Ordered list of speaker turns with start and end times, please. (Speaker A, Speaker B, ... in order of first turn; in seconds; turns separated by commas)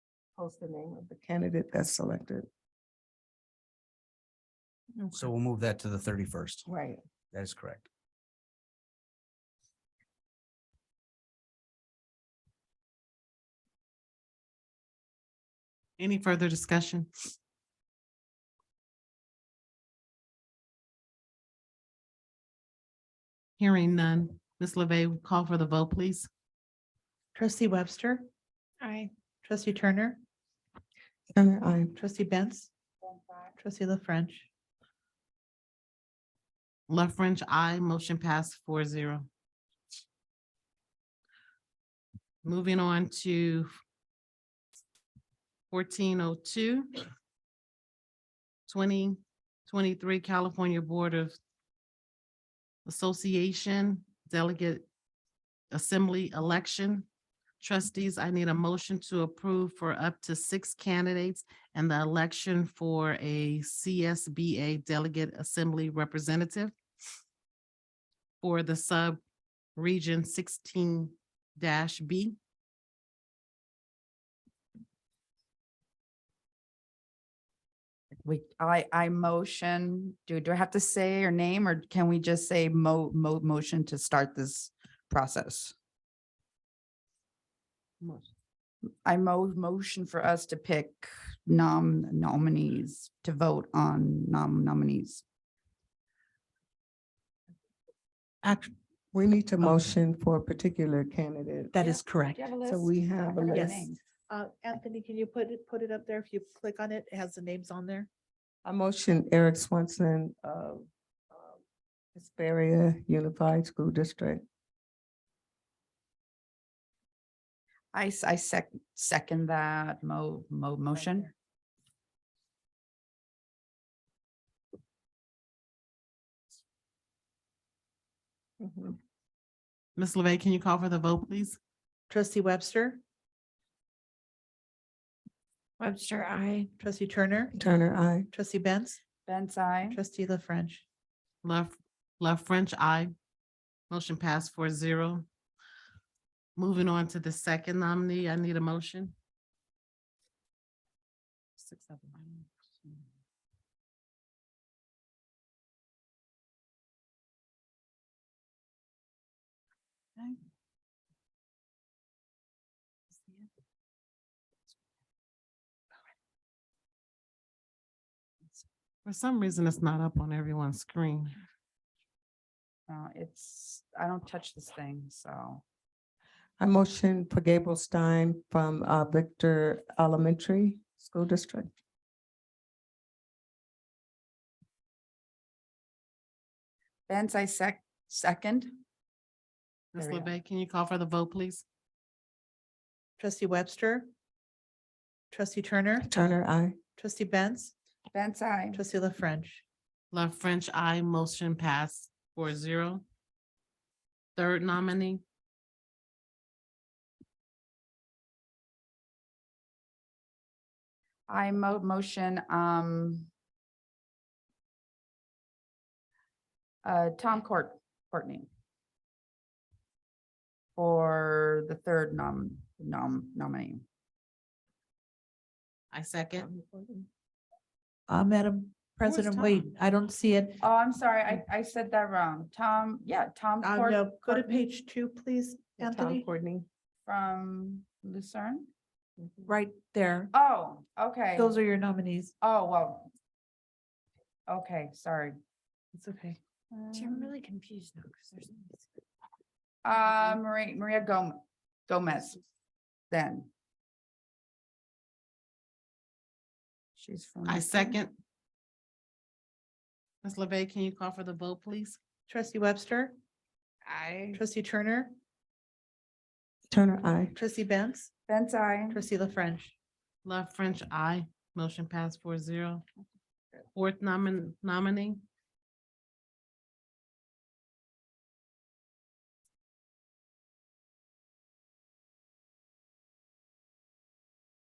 Speaker A: 0.3-2.5, Speaker B: 5.1-6.7, Speaker A: 6.7-7.0, Speaker B: 7.3-7.9, Speaker C: 16.0-17.1, Speaker C: 23.6-26.3, Speaker D: 27.3-28.3, Speaker E: 28.8-29.1, Speaker D: 29.4-30.2, Speaker A: 31.3-31.9, Speaker D: 31.9-32.7, Speaker F: 33.0-33.5, Speaker D: 33.5-34.5, Speaker C: 36.9-39.3, Speaker C: 42.4-43.7, Speaker C: 45.7-47.0, Speaker C: 48.7-51.4, Speaker C: 52.9-54.9, Speaker C: 55.7-57.1, Speaker C: 57.6-66.7, Speaker C: 68.4-69.2, Speaker C: 69.8-72.3, Speaker F: 78.2-85.7, Speaker F: 89.0-95.2, Speaker D: 98.4-98.7, Speaker A: 99.1-101.8, Speaker D: 101.7-102.5, Speaker F: 101.8-104.0, Speaker A: 102.6-103.9, Speaker D: 103.5-108.1, Speaker A: 108.6-111.6, Speaker A: 112.1-114.4, Speaker F: 117.9-121.3, Speaker A: 128.6-129.0, Speaker C: 129.9-131.6, Speaker D: 132.1-133.0, Speaker E: 135.8-136.7, Speaker D: 136.8-137.6, Speaker A: 137.5-138.3, Speaker D: 138.3-139.0, Speaker F: 139.2-140.0, Speaker D: 139.9-140.8, Speaker C: 141.4-143.1, Speaker C: 143.9-145.2, Speaker C: 146.6-149.1, Speaker C: 151.6-152.4, Speaker C: 169.0-171.3, Speaker F: 172.9-175.6, Speaker A: 176.6-181.7, Speaker F: 187.1-188.8, Speaker C: 189.9-191.6, Speaker F: 190.0-190.3, Speaker D: 193.2-194.1, Speaker D: 195.3-196.1, Speaker A: 196.0-196.8, Speaker D: 197.0-197.7, Speaker F: 198.1-198.8, Speaker D: 198.7-199.6, Speaker C: 200.1-203.0, Speaker C: 204.3-205.2, Speaker F: 211.3-213.3, Speaker F: 216.8-218.5, Speaker F: 220.8-223.8, Speaker C: 225.9-226.5, Speaker A: 226.4-227.1, Speaker D: 228.1-230.6, Speaker C: 229.0-229.7, Speaker F: 230.6-234.6, Speaker D: 233.6-236.3, Speaker A: 235.8-236.7, Speaker F: 237.0-238.7, Speaker A: 239.2-239.5, Speaker D: 239.4-240.3, Speaker F: 240.3-241.6, Speaker D: 241.3-242.3, Speaker F: 242.4-243.1, Speaker F: 244.5-245.4, Speaker D: 245.9-246.4, Speaker F: 246.7-247.3, Speaker E: 246.9-248.8, Speaker F: 249.8-252.4, Speaker F: 253.1-253.5, Speaker F: 256.9-258.0, Speaker C: 257.4-258.1, Speaker C: 260.2-262.0, Speaker D: 262.3-263.1, Speaker F: 263.9-264.4, Speaker D: 264.3-265.1, Speaker A: 266.7-267.3, Speaker D: 267.3-268.1, Speaker F: 268.3-269.1, Speaker D: 268.9-269.7, Speaker C: 270.2-272.8, Speaker C: 273.7-275.2